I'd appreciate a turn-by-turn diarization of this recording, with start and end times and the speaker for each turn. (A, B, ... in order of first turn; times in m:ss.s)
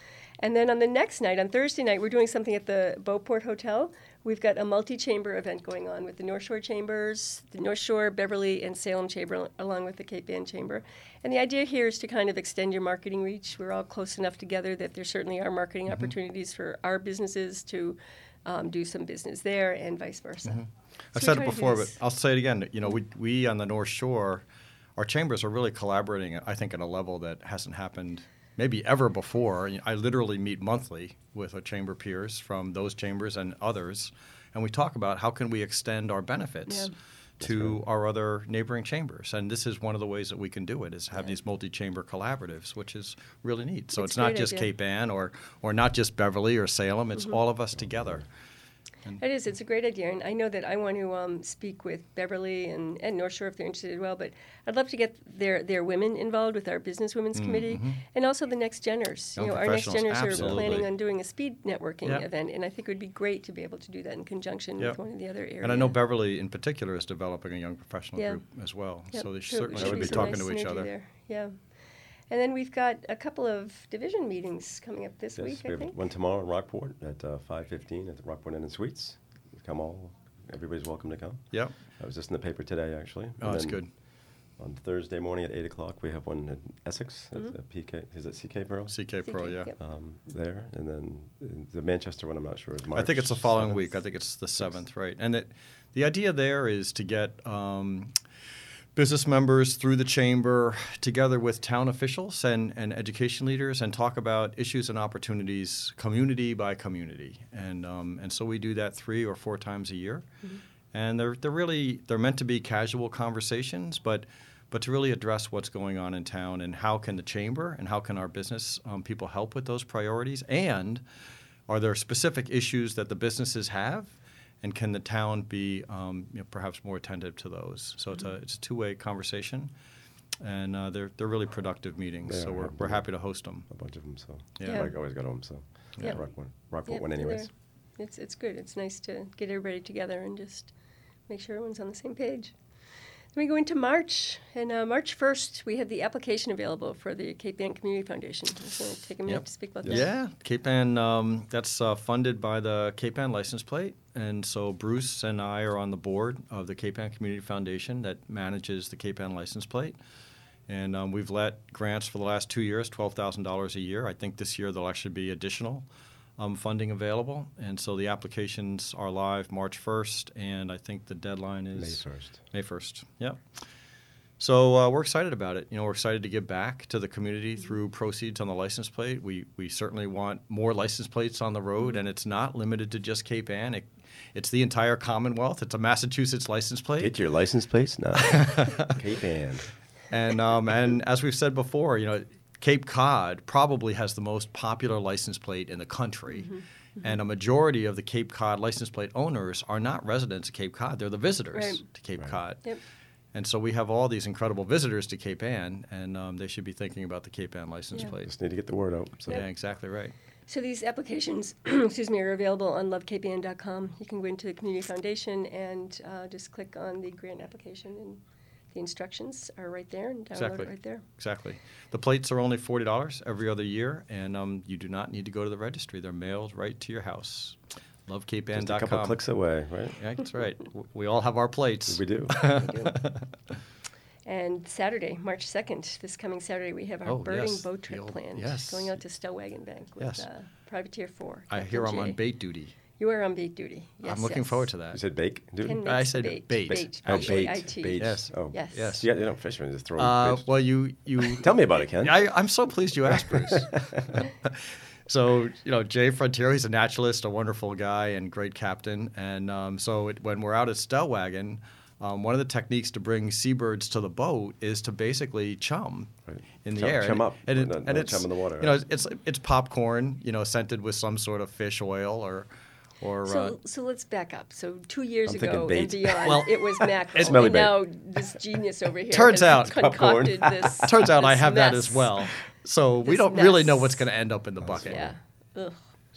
0:00.4-0:20.6 A
0:15.9-0:16.2 B
0:20.5-0:24.4 B
0:21.1-0:22.0 A
0:25.0-0:48.3 B
0:36.7-0:36.9 A
0:37.4-0:37.8 C
0:44.0-0:44.7 A
0:47.8-0:48.2 C
0:49.2-1:06.0 A
0:57.4-0:58.0 B
0:59.4-1:00.9 B
1:00.3-1:00.8 C
1:05.6-1:10.9 B
1:08.2-1:08.4 A
1:09.1-1:11.5 A
1:09.7-1:10.4 C
1:12.3-1:16.0 A
1:15.4-1:23.9 C
1:23.4-1:23.9 B
1:24.6-1:29.1 C
1:28.9-1:29.7 B
1:29.2-1:29.8 A
1:29.8-1:33.9 C
1:33.0-1:38.1 B
1:39.0-1:50.2 B
1:50.9-2:01.0 B
2:01.7-2:09.7 B
2:10.4-2:13.7 B
2:12.2-2:13.1 C
2:13.7-2:17.5 C
2:14.6-2:14.9 B
2:14.6-2:14.9 A
2:16.9-2:20.7 A
2:21.3-2:22.5 A
2:23.3-2:30.1 A
2:29.3-2:40.0 B
2:40.7-2:45.8 B
2:46.4-2:53.4 B
2:51.8-2:52.4 C
2:54.4-3:07.1 B
3:07.0-3:09.6 C
3:08.2-3:09.0 B
3:10.1-3:16.5 B
3:16.3-3:17.1 A
3:17.0-3:22.6 B
3:21.5-3:21.8 A
3:23.3-3:28.3 B
3:28.2-3:29.4 C
3:29.3-3:30.1 B
3:30.5-3:38.2 A
3:38.7-3:41.0 A
3:40.4-3:49.2 B
3:48.5-3:50.0 C
3:50.0-3:53.2 B
3:51.9-3:52.4 C
3:52.4-3:53.0 A
3:54.2-4:02.2 A
3:57.1-3:59.0 B
4:00.0-4:00.2 B
4:01.5-4:02.8 B
4:03.0-4:04.7 A
4:04.0-4:05.0 B
4:04.9-4:05.8 C
4:05.6-4:09.0 A
4:05.8-4:09.1 B
4:06.7-4:10.5 C
4:10.0-4:26.1 B
4:11.3-4:12.2 C
4:13.1-4:13.8 C
4:26.3-4:28.8 C
4:26.6-4:32.5 B
4:33.0-4:33.6 B
4:33.2-4:42.3 A
4:35.2-4:36.4 C
4:36.2-4:37.6 B
4:37.1-4:37.9 C
4:39.1-4:45.1 B
4:39.6-4:40.9 C
4:43.0-4:44.1 A
4:44.6-4:45.1 C
4:44.9-4:45.8 A